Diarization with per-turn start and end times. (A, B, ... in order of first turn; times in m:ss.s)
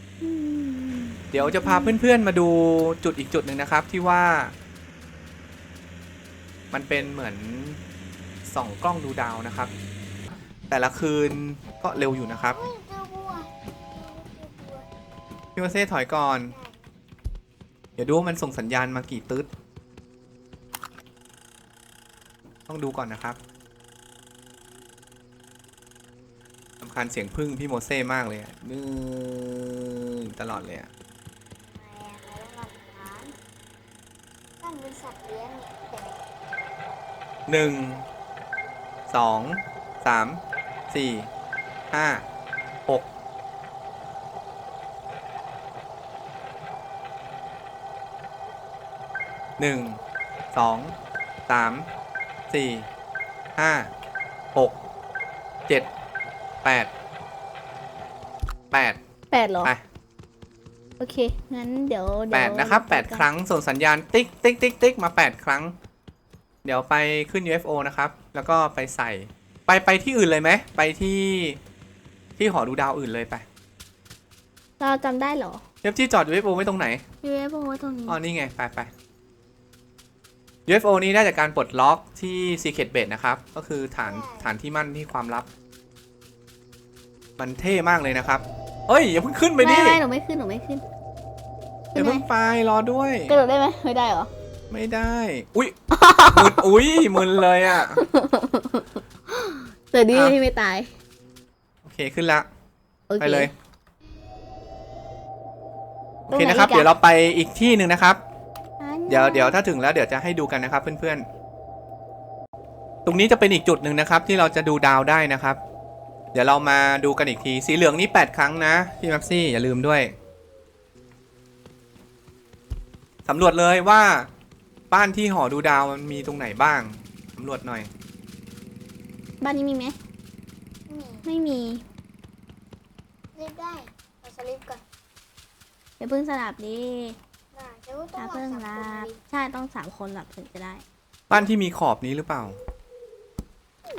0:00.2-0:02.0 A
0:01.3-0:04.5 B
0:06.7-0:07.8 B
0:08.4-0:09.7 B
0:10.7-0:12.6 B
0:12.5-0:14.9 C
0:15.6-0:16.6 B
0:16.5-0:16.9 C
0:18.0-0:19.5 B
0:22.7-0:23.4 B
0:26.8-0:30.9 B
0:31.6-0:33.4 C
0:34.6-0:36.3 C
0:37.5-0:38.1 B
0:39.1-0:41.3 B
0:41.9-0:42.2 B
0:49.6-0:50.0 B
0:50.5-0:50.9 B
0:51.5-0:51.9 B
0:52.5-0:52.9 B
0:53.6-0:53.9 B
0:56.6-0:56.9 B
0:58.7-0:59.0 B
0:59.3-0:59.7 A
1:01.0-1:03.3 A
1:02.3-1:05.8 B
1:06.6-1:11.6 B
1:12.4-1:13.4 B
1:14.8-1:15.6 A
1:15.8-1:17.0 B
1:17.2-1:18.2 A
1:18.1-1:18.9 B
1:20.7-1:25.5 B
1:24.0-1:24.5 C
1:27.4-1:30.0 B
1:29.6-1:30.8 A
1:32.0-1:32.2 A
1:32.0-1:33.4 B
1:33.3-1:34.3 A
1:34.7-1:35.8 B
1:35.9-1:37.0 A
1:36.3-1:38.0 B
1:37.7-1:40.9 A
1:40.1-1:40.4 B
1:41.8-1:42.5 B
1:43.1-1:43.5 A
1:43.2-1:43.5 B
1:46.3-1:48.2 B
1:46.3-1:46.9 A
1:48.8-1:49.6 A
1:49.1-1:51.3 B
1:53.1-1:55.6 B
1:56.3-2:00.1 B
2:03.2-2:04.3 B
2:04.9-2:07.9 B
2:09.4-2:10.0 A
2:10.9-2:11.3 C
2:11.2-2:11.8 A
2:13.4-2:14.8 C
2:16.0-2:17.2 A
2:17.5-2:19.2 C
2:18.2-2:20.8 A
2:21.3-2:22.6 B